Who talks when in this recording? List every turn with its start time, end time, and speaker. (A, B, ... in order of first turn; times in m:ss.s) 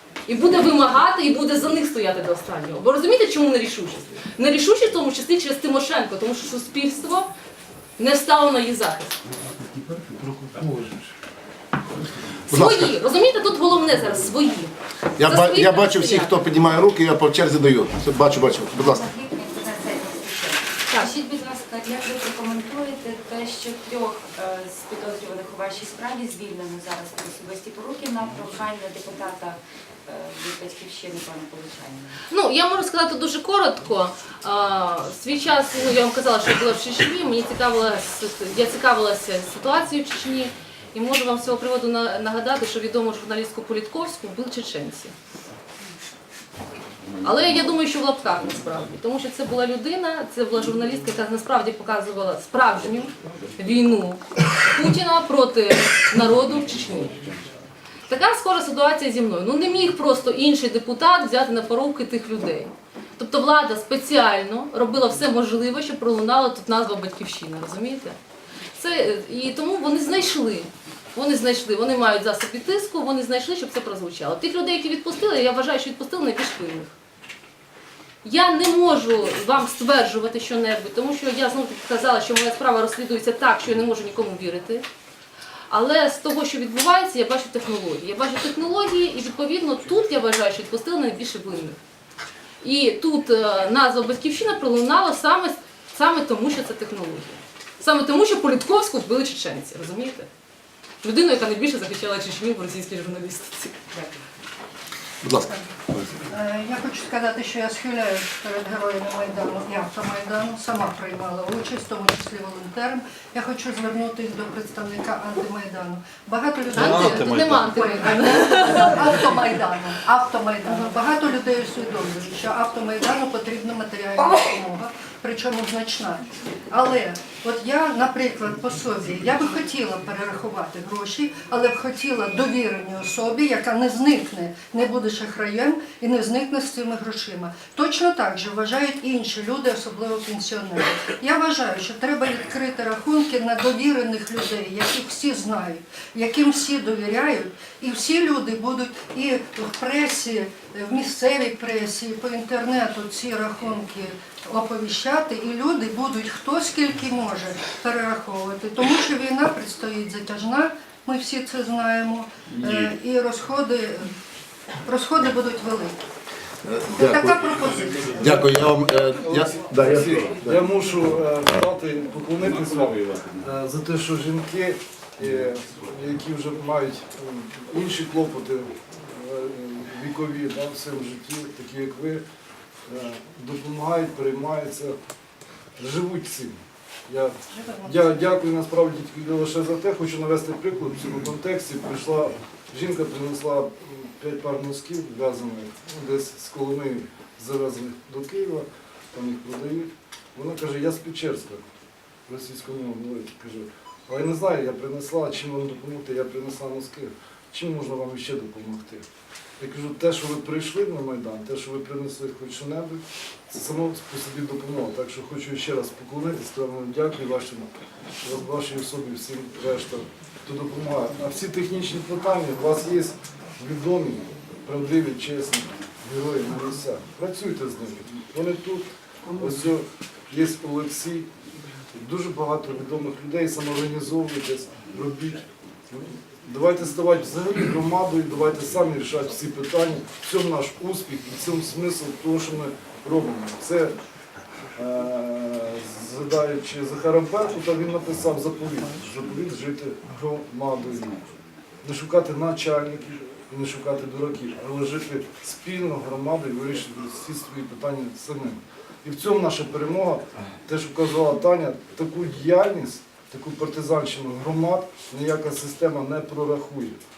0:00.3-0:07.3 A
0:08.0-0:09.2 A
0:12.5-0:16.6 A
0:12.5-0:12.9 B
0:15.2-0:19.0 B
0:18.8-0:32.2 C
0:32.3-0:45.1 A
0:47.2-0:57.2 A
0:58.1-1:08.2 A
1:08.8-1:16.9 A
1:18.2-1:24.8 A
1:25.7-1:31.8 A
1:32.6-1:40.3 A
1:41.0-1:43.8 A
1:45.2-1:46.1 B
1:46.3-2:44.1 D
1:56.7-1:59.4 A
2:44.8-2:46.0 D
2:46.7-2:47.7 B
2:46.9-2:48.6 D
2:48.2-2:50.6 B
2:49.0-3:02.2 E
3:02.9-3:04.9 E
3:05.8-3:06.6 E
3:07.1-3:21.6 E
3:07.5-3:08.0 D
3:22.3-3:29.0 E
3:29.6-3:37.7 E
3:38.2-3:51.3 E
3:52.0-4:04.0 E
4:04.8-4:11.2 E
4:11.8-4:27.0 E